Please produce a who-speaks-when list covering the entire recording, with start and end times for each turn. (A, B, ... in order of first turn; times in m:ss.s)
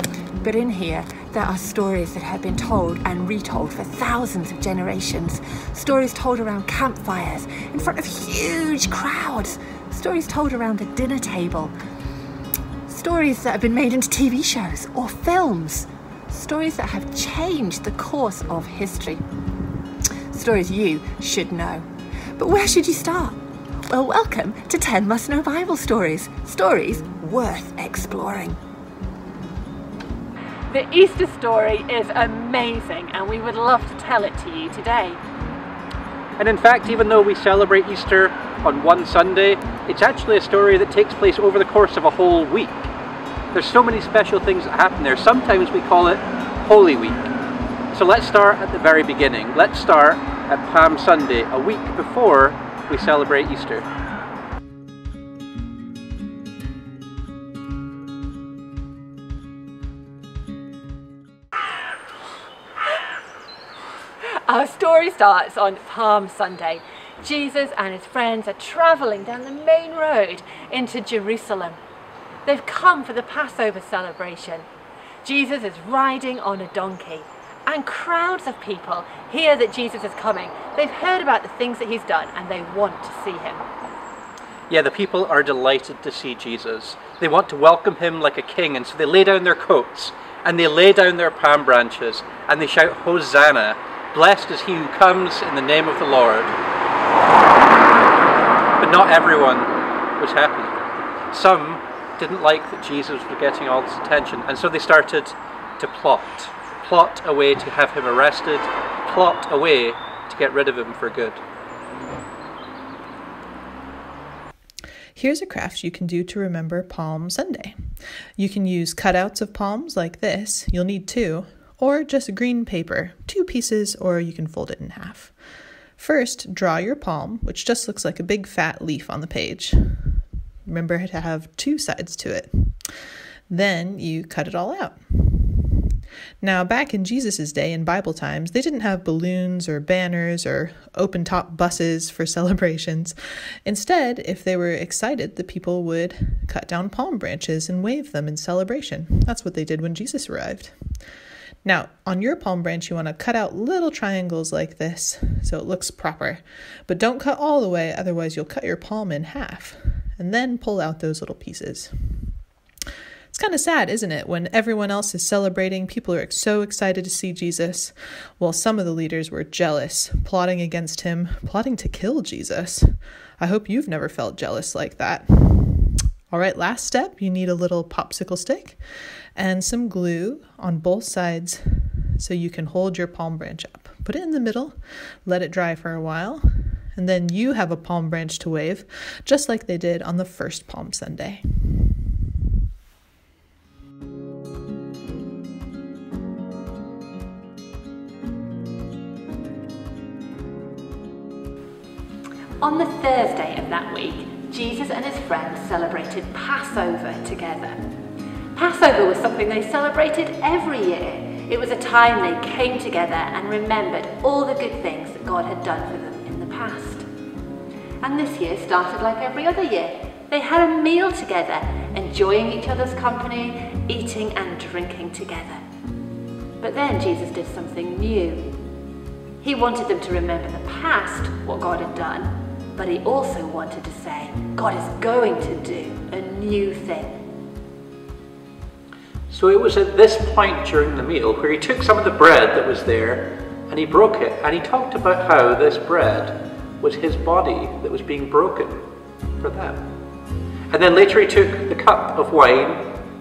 0:00.4-0:11.7 A
0:12.8-0:19.2 A
0:20.3-0:28.6 A
0:30.7-0:35.2 A
0:31.4-0:34.9 B
0:36.4-0:42.9 C
0:43.5-0:47.3 C
0:47.9-0:53.8 C
1:04.2-1:11.8 B
1:12.4-1:14.7 B
1:15.2-1:23.6 B
1:24.7-1:36.6 C
1:38.8-1:40.8 C
1:41.3-1:51.4 C
1:55.1-1:57.8 D
1:58.4-2:05.3 D
2:06.0-2:12.9 D
2:13.5-2:30.8 D
2:31.6-2:42.3 D
2:43.3-2:58.8 D
2:59.3-3:12.1 D
3:22.6-3:27.8 B
3:28.5-3:37.0 B
3:34.1-3:36.4 A
3:38.0-3:45.6 B
3:46.6-3:48.5 B
3:49.4-3:57.2 B
3:59.3-4:08.9 C
4:09.4-4:09.8 C
4:10.7-4:12.9 C